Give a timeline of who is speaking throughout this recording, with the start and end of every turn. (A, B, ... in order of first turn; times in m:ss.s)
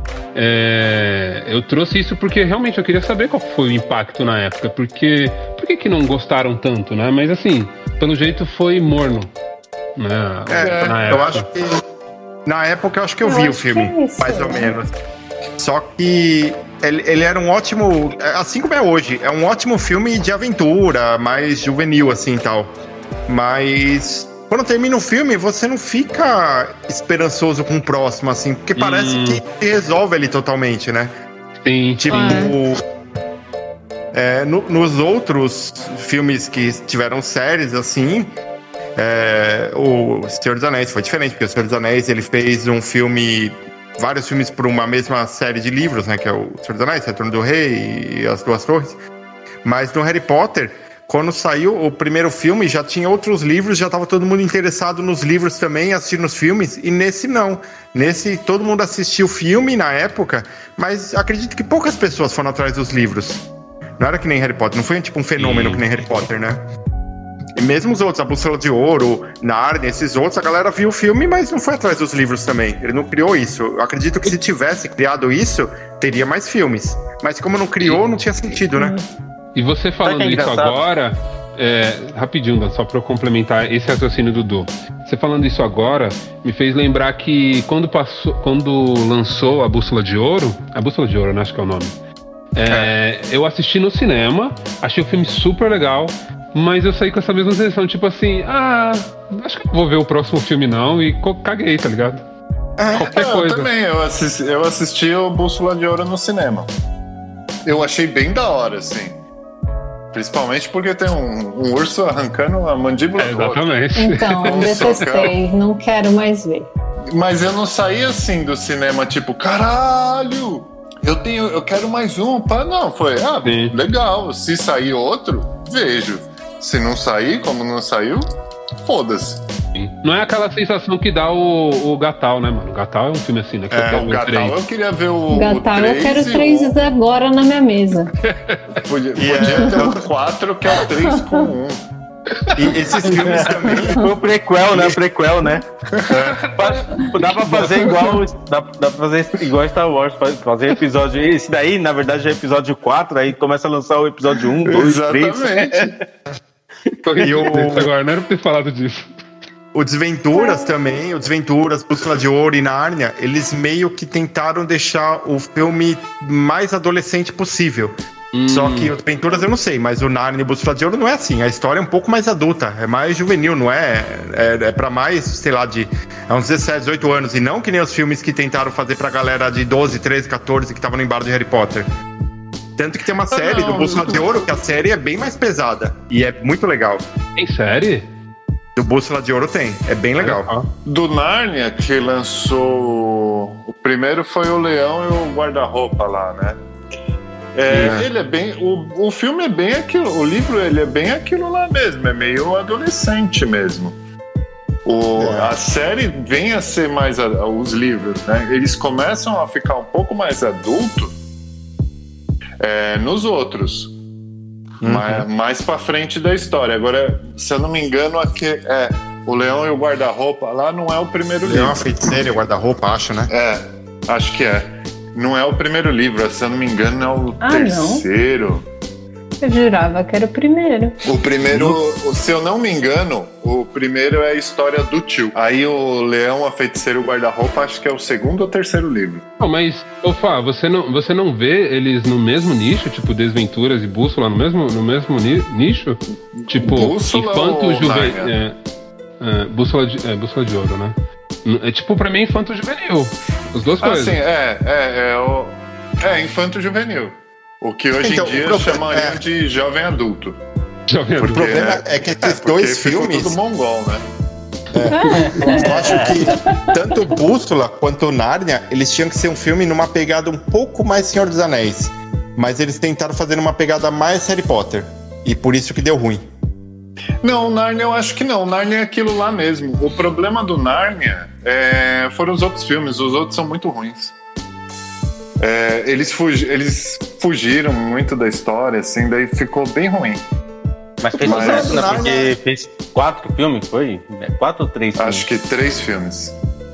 0:00.3-0:09.3 A
0:10.0-0:11.5 A
0:10.5-0:11.8 B
0:10.6-0:11.3 C
0:12.4-0:14.9 B
0:13.2-0:14.7 D
0:15.6-0:22.7 B
0:23.3-0:31.1 B
0:28.8-0:29.4 A
0:31.6-0:32.4 A
0:32.0-0:32.8 B
0:32.1-0:32.5 D
0:34.1-0:38.3 B
0:39.0-0:49.0 B
0:49.6-1:03.4 B
1:04.0-1:06.6 B
1:05.4-1:05.8 A
1:07.6-1:19.0 B
1:19.5-1:31.9 A
1:20.0-1:20.8 E
1:32.5-1:42.2 A
1:42.8-1:43.1 B
1:42.9-1:43.7 A
1:43.0-1:46.7 C
1:47.6-1:49.2 C
1:50.1-1:53.7 C
1:53.2-1:55.0 A
1:54.0-1:56.7 D
1:54.4-1:55.3 C
1:57.1-2:08.2 C
2:03.4-2:03.8 A
2:08.8-2:09.4 C
2:09.7-2:14.6 A
2:13.7-2:14.1 B
2:13.9-2:16.8 C
2:15.3-2:18.1 D
2:18.2-2:18.6 A
2:18.7-2:21.8 C
2:19.2-2:20.1 B
2:19.4-2:19.9 D
2:20.8-2:21.5 D
2:22.5-2:24.0 B
2:23.1-2:35.9 E
2:25.9-2:26.5 C
2:27.8-2:28.2 D
2:34.6-2:35.9 C
2:37.0-2:39.1 A
2:37.2-2:37.9 B
2:39.7-2:47.9 B
2:40.3-2:40.7 D
2:48.3-2:48.9 A
2:48.5-3:01.9 B
3:02.8-3:07.0 B
3:03.3-3:04.3 C
3:07.4-3:08.1 A
3:08.8-3:10.5 B
3:10.2-3:10.7 A
3:10.8-3:16.6 C
3:17.5-3:23.9 C
3:17.7-3:18.0 A
3:24.8-3:31.1 C
3:25.2-3:25.5 B
3:32.6-3:33.9 C
3:34.8-3:35.2 B
3:34.8-3:41.9 C
3:41.4-3:43.3 B
3:43.3-3:48.6 C
3:47.4-3:48.0 D
3:49.4-3:51.0 D
3:51.0-3:59.2 C
3:51.4-3:51.8 A
3:59.4-4:08.6 A
4:06.4-4:08.3 C
4:09.2-4:14.2 A
4:13.8-4:20.4 C
4:18.0-4:19.2 B
4:20.9-4:21.6 A
4:21.2-4:24.0 C
4:21.3-4:23.4 B
4:24.7-4:36.2 B
4:24.9-4:26.8 D
4:25.0-4:25.4 A
4:25.5-4:26.1 E
4:37.2-4:44.1 C
4:45.4-4:50.2 C
4:51.0-4:55.2 E
4:51.1-4:52.3 B
4:51.2-4:52.1 C
4:55.0-4:56.4 C